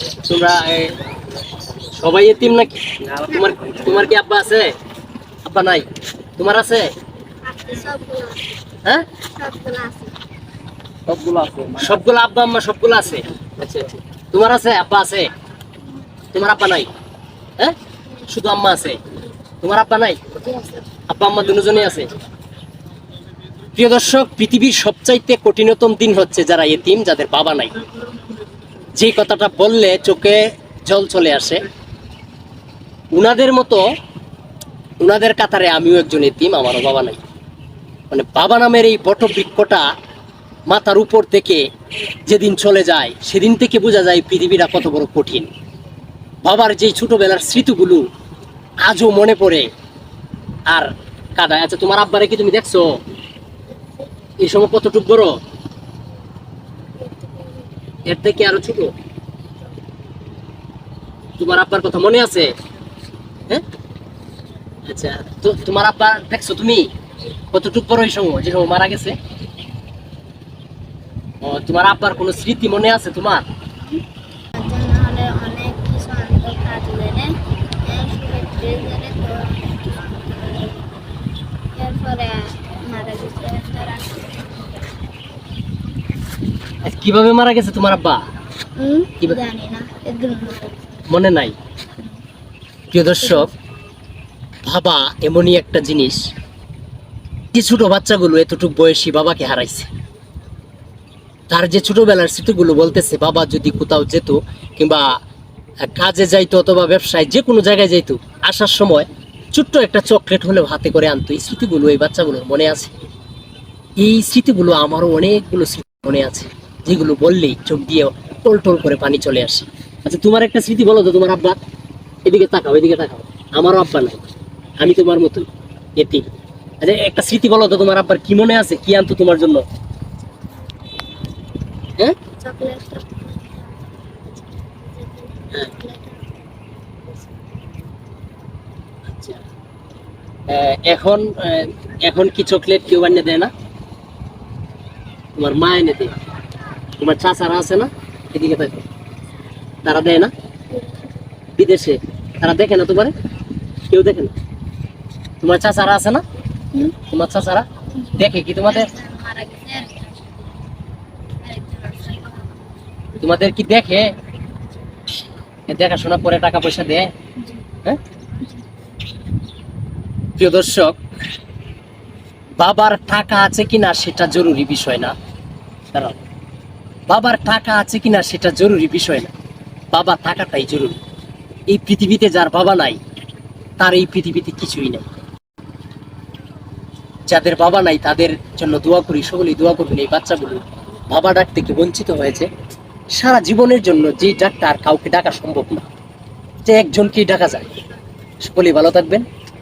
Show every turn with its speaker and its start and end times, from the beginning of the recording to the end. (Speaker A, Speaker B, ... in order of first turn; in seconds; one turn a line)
Speaker A: 0.2-1.0
Speaker A: 1.8-4.7
Speaker A: 5.4-5.9
Speaker A: 6.4-6.9
Speaker B: 7.5-8.4
Speaker B: 9.3-10.1
Speaker A: 11.1-15.3
Speaker A: 16.3-16.9
Speaker A: 18.3-19.0
Speaker A: 19.6-20.2
Speaker A: 21.1-22.1
Speaker A: 23.8-27.7
Speaker A: 28.9-31.6
Speaker A: 33.1-33.8
Speaker A: 35.0-37.2
Speaker A: 38.1-39.9
Speaker A: 40.7-41.6
Speaker A: 42.2-45.5
Speaker A: 46.4-48.0
Speaker A: 48.8-49.7
Speaker A: 50.7-53.0
Speaker A: 54.4-55.4
Speaker A: 58.0-58.9
Speaker A: 61.4-62.5
Speaker A: 64.8-66.9
Speaker A: 67.5-69.2
Speaker A: 71.4-73.5
Speaker B: 74.5-80.9
Speaker B: 81.7-84.8
Speaker A: 86.8-88.2
Speaker B: 88.8-90.7
Speaker A: 91.1-91.5
Speaker A: 92.9-93.5
Speaker A: 94.6-96.2
Speaker A: 97.5-99.9
Speaker A: 101.5-105.1
Speaker A: 105.8-112.9
Speaker A: 114.0-121.6
Speaker A: 122.2-124.2
Speaker A: 124.8-126.2
Speaker A: 126.8-129.6
Speaker B: 132.4-136.5
Speaker B: 137.0-137.5
Speaker A: 139.1-139.4
Speaker A: 140.5-143.5
Speaker A: 145.4-146.1
Speaker A: 147.0-148.8
Speaker A: 149.8-150.3
Speaker A: 151.6-153.1
Speaker A: 153.9-154.3
Speaker A: 155.4-156.2
Speaker A: 157.0-158.9
Speaker B: 158.2-160.3
Speaker B: 161.4-162.6
Speaker A: 163.2-164.1
Speaker A: 165.7-167.1
Speaker B: 167.4-167.6
Speaker A: 170.4-171.0
Speaker A: 172.6-175.1
Speaker A: 177.1-179.3
Speaker A: 179.9-181.0
Speaker A: 181.7-183.0
Speaker A: 183.8-185.0
Speaker A: 187.3-192.5
Speaker A: 193.1-195.8
Speaker A: 196.7-197.6
Speaker A: 198.4-199.2